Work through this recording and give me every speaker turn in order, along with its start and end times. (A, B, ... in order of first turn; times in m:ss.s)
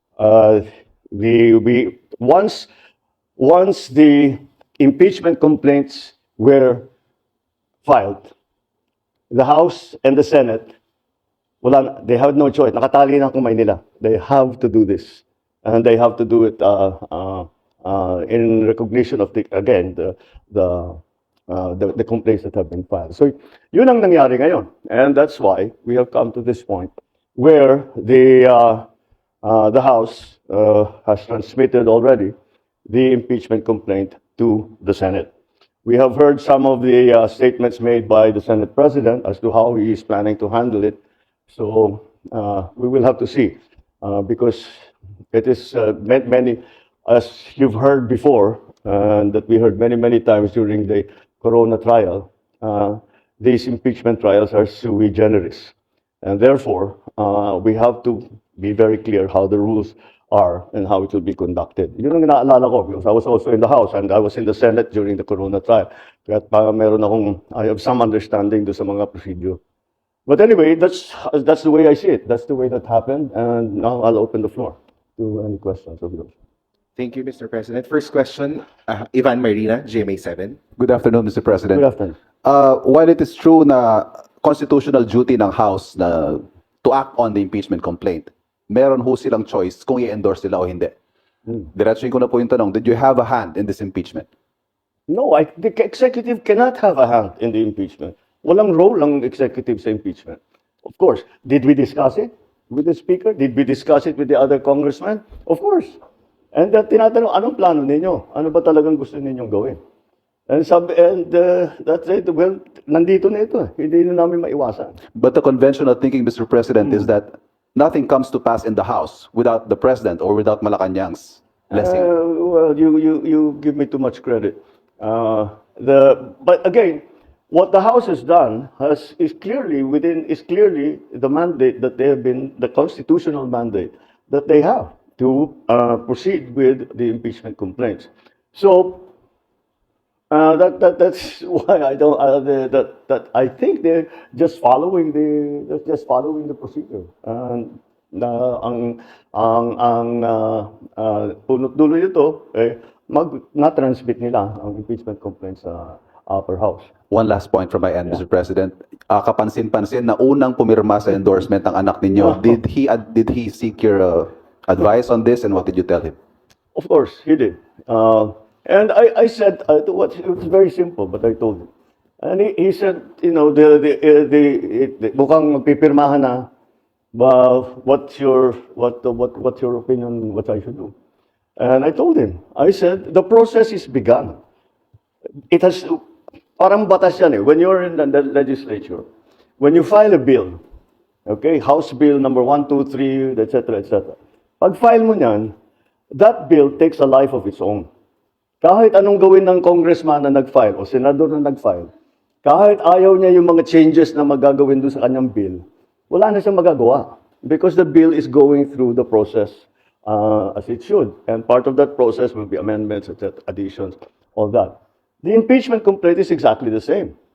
0:00.2-0:02.7 A
0:03.4-0:06.9 A
0:07.8-0:08.3 A
0:09.3-0:10.7 A
0:11.6-0:28.9 A
0:29.4-0:32.3 A
0:32.9-0:35.3 A
0:35.8-0:41.0 A
0:41.5-1:09.6 A
1:10.3-1:16.3 A
1:17.0-1:20.6 B
1:20.8-1:21.8 C
1:21.7-1:22.2 A
1:22.4-1:30.9 C
1:31.7-1:34.3 C
1:35.1-1:46.0 A
1:46.5-1:49.8 A
1:50.5-1:55.0 A
1:55.1-2:02.1 C
2:01.7-2:19.1 A
2:20.3-2:36.9 A
2:37.1-2:46.2 C
2:42.2-2:42.5 A
2:46.7-2:51.7 A
2:52.2-2:56.5 A
2:57.1-3:00.9 A
3:01.6-3:04.4 A
3:05.5-3:06.0 A
3:06.6-3:09.0 A
3:09.6-3:10.6 A
3:11.3-3:15.5 A
3:16.1-3:17.9 A
3:18.6-3:21.9 A
3:22.4-3:37.1 A